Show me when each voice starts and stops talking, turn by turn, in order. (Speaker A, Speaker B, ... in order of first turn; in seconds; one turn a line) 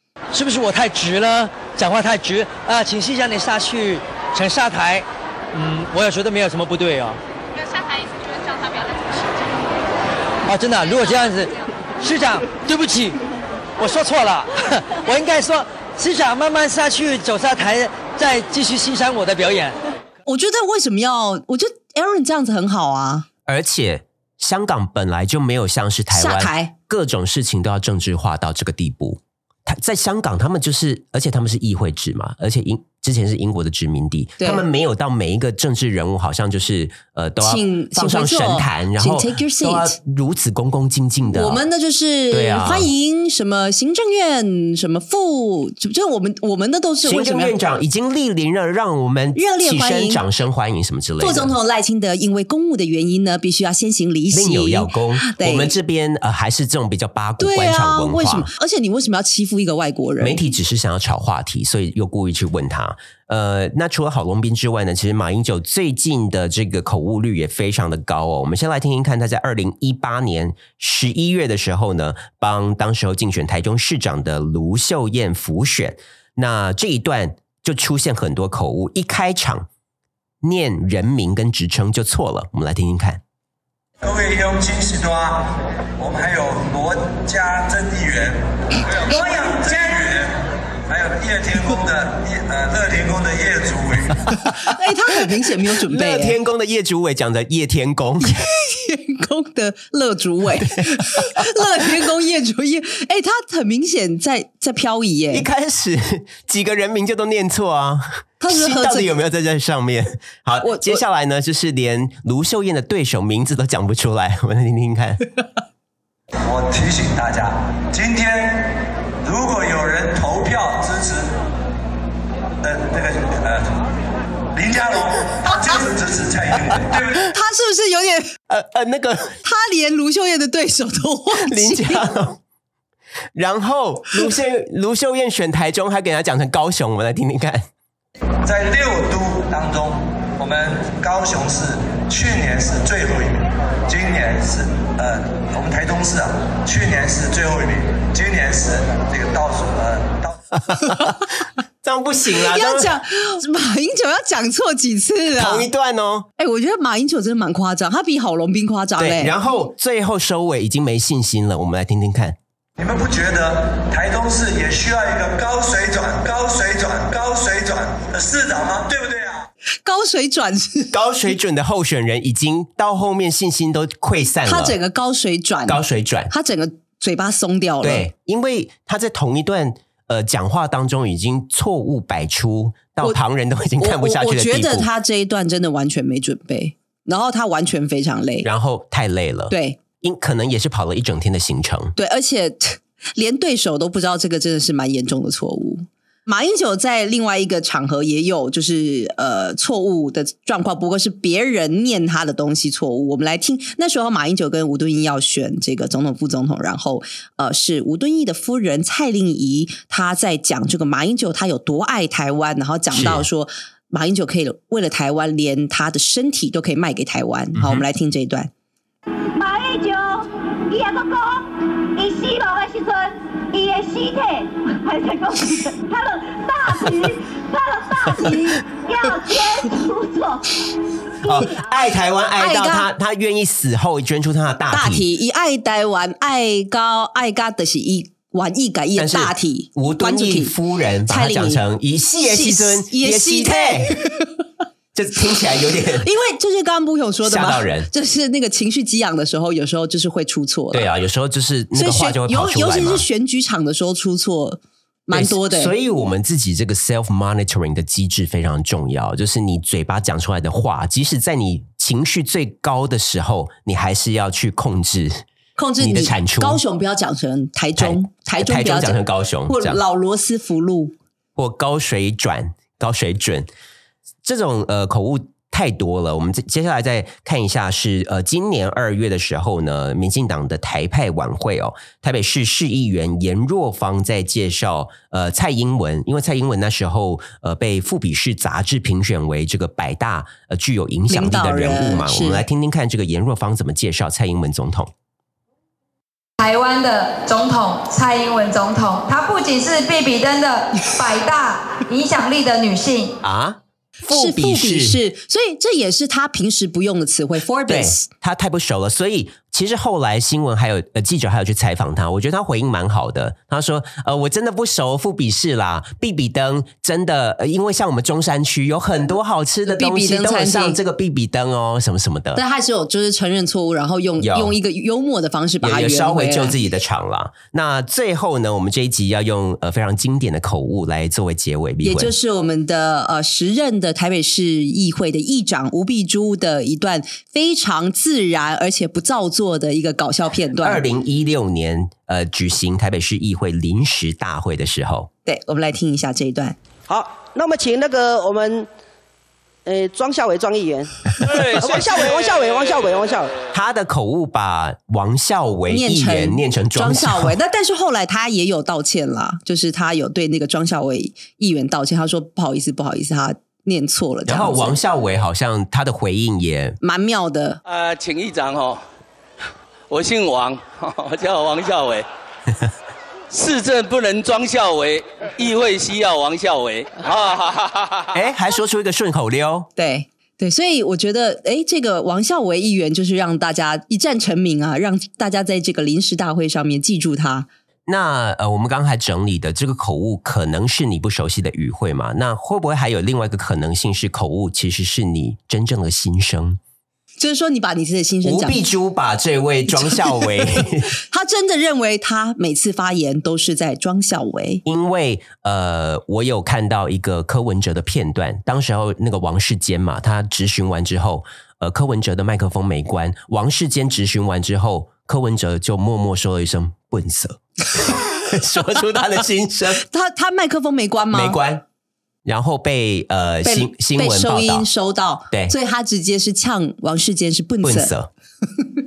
Speaker A: 0.3-7.2
Speaker A: 10.5-13.2
Speaker A: 13.8-19.8
Speaker B: 20.3-23.3
Speaker C: 23.5-41.6
Speaker B: 26.1-26.7
Speaker B: 34.4-34.7
Speaker B: 37.4-40.0
Speaker B: 41.3-47.5
Speaker C: 42.3-42.9
Speaker C: 47.0-51.5
Speaker B: 49.4-50.2
Speaker B: 51.2-55.7
Speaker C: 54.3-58.5
Speaker B: 57.4-60.4
Speaker C: 60.2-79.7
Speaker C: 80.4-83.2
Speaker D: 84.0-94.4
Speaker B: 89.1-89.4
Speaker B: 94.6-96.4
Speaker C: 95.8-98.4
Speaker B: 98.2-105.5
Speaker C: 105.3-115.2
Speaker B: 108.4-109.1
Speaker B: 110.6-111.0
Speaker D: 116.5-121.3
Speaker D: 122.6-123.8
Speaker D: 124.5-127.3
Speaker B: 127.1-128.3
Speaker C: 128.5-129.4
Speaker B: 129.4-132.0
Speaker C: 131.3-132.4
Speaker C: 133.4-137.7
Speaker D: 138.4-150.4
Speaker C: 150.7-151.3
Speaker C: 151.8-152.9
Speaker B: 152.4-155.7
Speaker C: 155.4-156.3
Speaker B: 156.4-159.3
Speaker C: 159.0-162.4
Speaker D: 162.8-169.5
Speaker B: 169.8-170.9
Speaker C: 170.9-174.8
Speaker B: 174.5-178.1
Speaker C: 175.7-176.3
Speaker C: 177.8-184.9
Speaker B: 183.8-188.5
Speaker C: 188.4-191.9
Speaker B: 189.5-189.8
Speaker B: 192.0-218.5
Speaker C: 212.9-213.3
Speaker C: 217.6-217.8
Speaker E: 219.3-230.6
Speaker E: 231.2-231.6
Speaker C: 231.3-235.1
Speaker B: 232.4-232.9
Speaker B: 234.7-240.5
Speaker C: 239.0-243.9
Speaker B: 241.1-241.6
Speaker B: 242.2-244.3
Speaker C: 244.9-246.1
Speaker B: 246.0-250.9
Speaker C: 247.2-247.9
Speaker C: 250.7-253.1
Speaker B: 251.8-255.7
Speaker C: 255.1-265.2
Speaker B: 265.6-270.9
Speaker C: 265.8-266.6
Speaker C: 267.8-269.8
Speaker C: 271.4-273.5
Speaker C: 274.2-294.9
Speaker B: 291.1-292.4
Speaker F: 296.4-303.1
Speaker C: 303.2-305.0
Speaker B: 304.1-308.1
Speaker C: 307.7-322.4
Speaker B: 319.7-320.8
Speaker B: 322.4-326.6
Speaker C: 324.2-324.6
Speaker C: 325.6-332.1
Speaker B: 331.8-340.8
Speaker C: 340.6-345.1
Speaker B: 345.3-346.6
Speaker G: 346.9-348.7
Speaker G: 349.6-353.3
Speaker H: 351.2-352.3
Speaker C: 353.5-357.3
Speaker B: 355.7-364.8
Speaker C: 364.3-366.8
Speaker B: 366.8-367.6
Speaker H: 367.6-368.8
Speaker H: 369.9-372.1
Speaker H: 373.3-378.1
Speaker C: 378.1-379.7
Speaker B: 379.8-387.5
Speaker C: 387.9-396.6
Speaker B: 397.2-398.6
Speaker C: 398.2-400.9
Speaker B: 399.9-400.3
Speaker B: 401.1-404.6
Speaker C: 404.6-419.9
Speaker B: 419.9-421.4
Speaker C: 421.1-421.6
Speaker C: 422.3-424.7
Speaker B: 423.4-427.9
Speaker C: 427.6-428.1